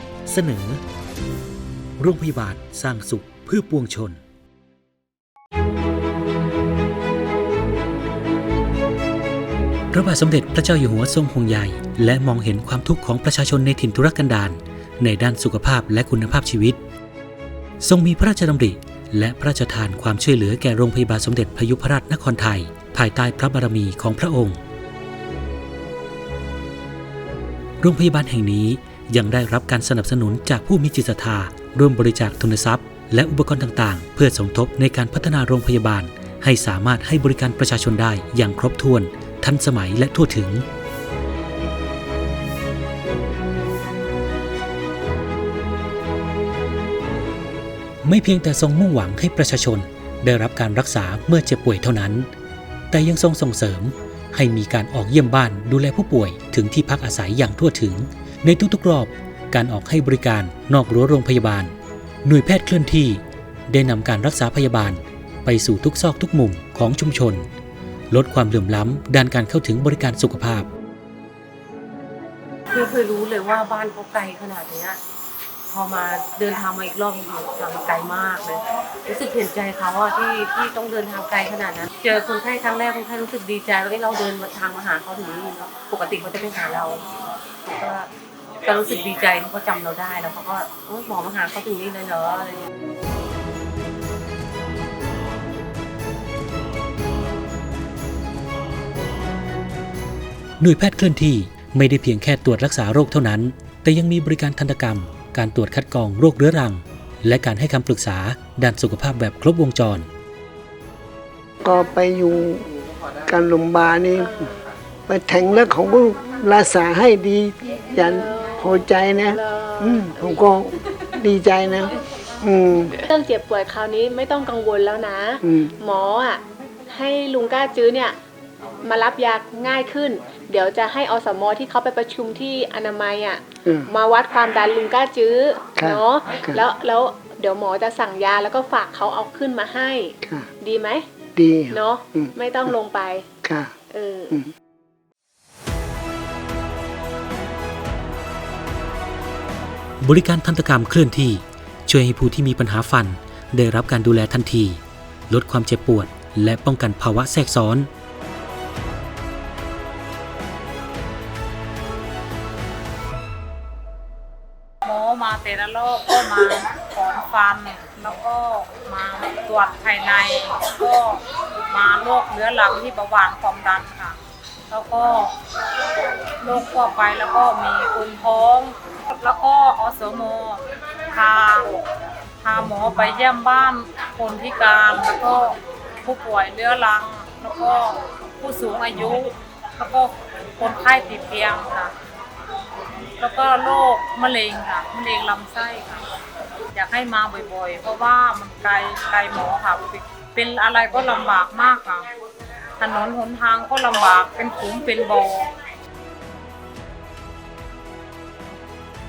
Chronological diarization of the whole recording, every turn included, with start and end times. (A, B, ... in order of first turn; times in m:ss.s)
0:00.3-0:00.8 A
0:02.0-0:04.2 A
0:09.9-0:16.8 A
0:17.8-0:24.6 A
0:27.8-0:40.6 A
0:48.0-0:52.3 A
0:52.9-1:07.5 A
1:08.1-1:10.7 A
1:12.7-1:15.0 B
1:15.7-1:27.1 B
1:27.6-1:32.7 B
1:40.6-1:50.1 A
1:51.6-1:52.7 C
1:53.2-1:54.5 C
1:54.2-1:54.6 D
1:55.1-2:03.0 C
1:58.0-1:58.6 D
1:59.3-2:00.3 D
2:03.1-2:08.2 D
2:05.4-2:05.7 C
2:08.8-2:21.1 D
2:15.8-2:16.6 C
2:20.2-2:20.5 C
2:21.4-2:22.3 C
2:21.7-2:24.4 D
2:23.4-2:23.7 C
2:30.0-2:37.9 A
2:44.8-2:54.2 E
2:54.7-2:55.3 E
2:56.4-3:01.8 E
3:02.4-3:11.9 E
3:13.2-3:16.0 E
3:16.7-3:22.1 E
3:22.8-3:25.5 E